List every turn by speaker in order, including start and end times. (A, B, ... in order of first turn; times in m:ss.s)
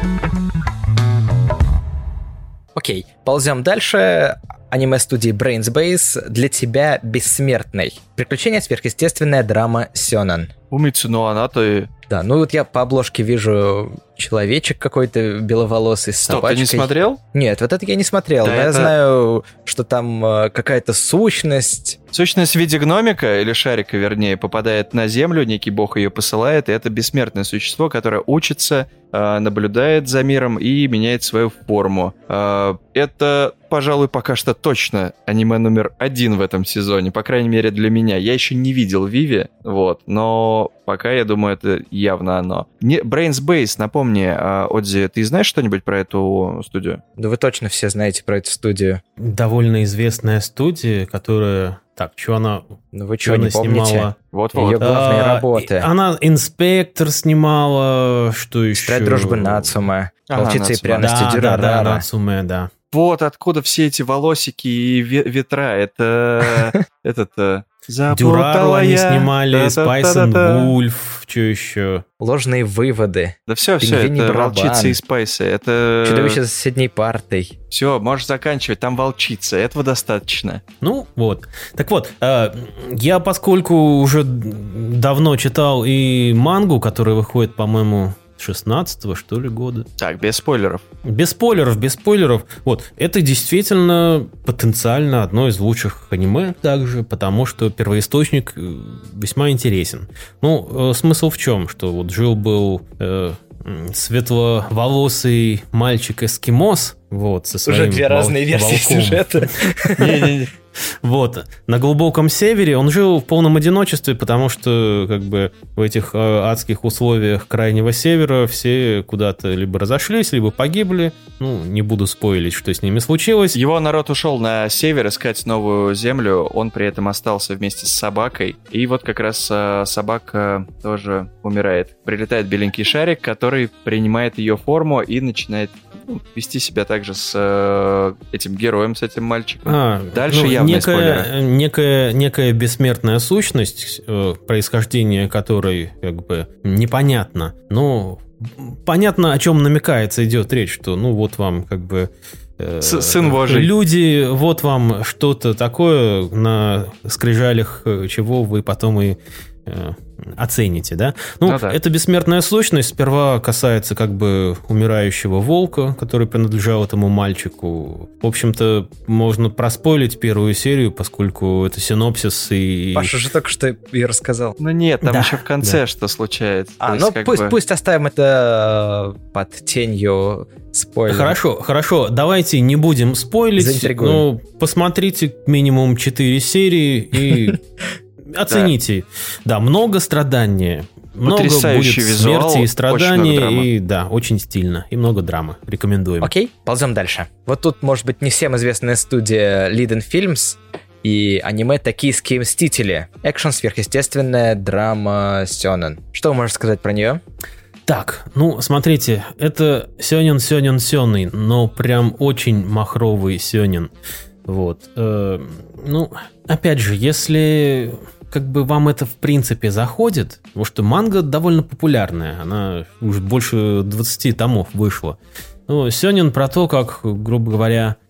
0:02.7-0:10.5 A
0:10.7-0:11.9 B
0:12.1-0:22.0 A
0:16.3-0:17.2 B
0:18.4-0:18.9 B
0:22.1-0:47.0 B
0:47.2-0:49.0 A
0:49.2-0:52.6 C
0:52.9-0:55.9 A
0:53.2-0:54.1 C
0:54.3-0:54.8 B
0:54.8-0:59.8 C
0:58.8-1:02.0 A
1:00.3-1:01.1 B
1:01.0-1:02.7 C
1:02.9-1:10.7 B
1:08.1-1:12.0 C
1:12.2-1:15.0 A
1:13.5-1:16.4 B
1:16.0-1:17.5 A
1:17.7-1:20.6 B
1:20.8-1:29.9 C
1:30.0-1:30.8 B
1:31.0-2:03.6 C
1:47.6-1:50.4 A
2:03.5-2:21.3 B
2:19.6-2:53.2 C
2:32.8-2:33.7 B
2:41.4-2:41.8 B
2:52.9-2:54.5 A
2:54.6-2:57.5 B
2:55.0-2:55.8 C
2:56.8-3:01.4 A
3:01.1-3:07.6 C
3:03.6-3:04.2 A
3:08.3-3:16.3 C
3:11.2-3:13.7 B
3:16.2-3:27.2 A
3:27.8-3:33.9 C
3:34.4-3:48.0 C